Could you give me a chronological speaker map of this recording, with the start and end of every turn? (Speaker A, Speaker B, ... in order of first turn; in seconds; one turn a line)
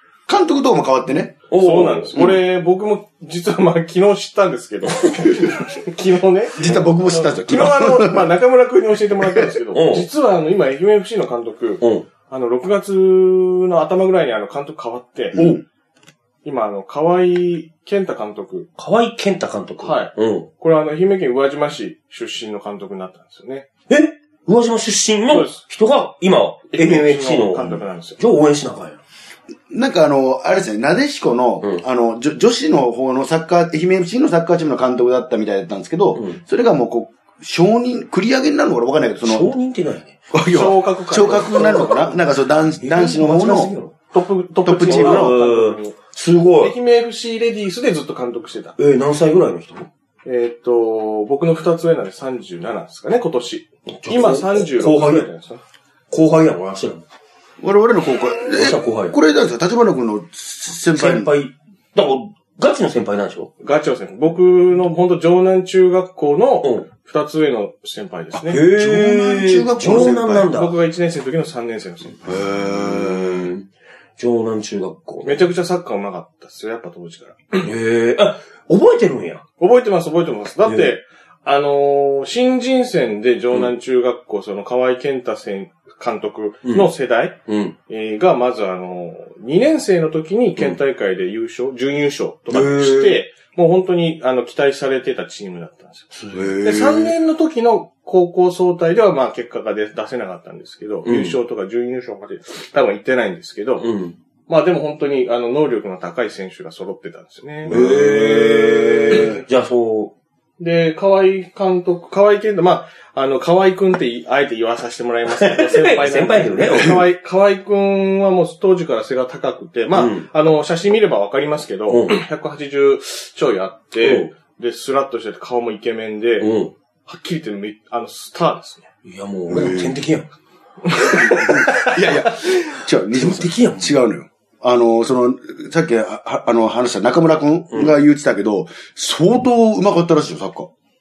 Speaker A: 0.3-1.4
Speaker B: 1.5-2.3
Speaker C: 1.6-15.5
Speaker B: 4.9-5.3
Speaker A: 6.6-8.3
Speaker A: 9.2-9.5
Speaker B: 9.7-10.1
Speaker B: 11.8-12.1
Speaker A: 15.3-15.6
Speaker C: 16.4-18.7
Speaker B: 18.8-20.5
Speaker C: 19.8-23.7
Speaker B: 23.9-29.0
Speaker C: 25.3-25.6
Speaker C: 26.7-28.2
Speaker A: 29.7-39.5
Speaker B: 36.1-36.4
Speaker B: 39.2-40.2
Speaker A: 40.3-43.7
Speaker C: 40.5-42.1
Speaker B: 41.2-42.2
Speaker B: 42.8-43.9
Speaker C: 44.1-46.0
Speaker A: 44.6-45.4
Speaker B: 44.8-46.8
Speaker C: 46.6-48.8
Speaker B: 48.8-49.9
Speaker C: 50.2-55.6
Speaker B: 53.9-55.3
Speaker B: 56.1-57.0
Speaker A: 57.6-61.3
Speaker B: 58.5-59.2
Speaker B: 60.9-63.5
Speaker C: 63.6-68.6
Speaker A: 68.3-70.5
Speaker B: 68.5-70.7
Speaker C: 69.9-72.2
Speaker A: 72.2-73.5
Speaker B: 72.3-73.7
Speaker B: 74.2-75.4
Speaker C: 75.2-77.7
Speaker B: 77.6-79.4
Speaker C: 79.6-103.9
Speaker B: 80.6-80.9
Speaker B: 86.6-86.9
Speaker B: 87.5-87.7
Speaker B: 92.5-93.2
Speaker B: 96.1-97.1
Speaker B: 101.0-101.4
Speaker B: 103.8-104.2
Speaker C: 104.5-109.4
Speaker A: 107.7-108.4
Speaker B: 107.7-110.1
Speaker A: 109.1-109.4
Speaker C: 110.6-126.5
Speaker B: 115.3-117.0
Speaker B: 119.9-120.3
Speaker B: 121.9-122.2
Speaker B: 124.0-124.3
Speaker B: 126.4-126.7
Speaker C: 127.0-128.9
Speaker B: 129.0-130.3
Speaker A: 129.5-130.0
Speaker C: 130.9-131.8
Speaker B: 131.0-131.9
Speaker A: 131.1-140.7
Speaker B: 133.1-134.0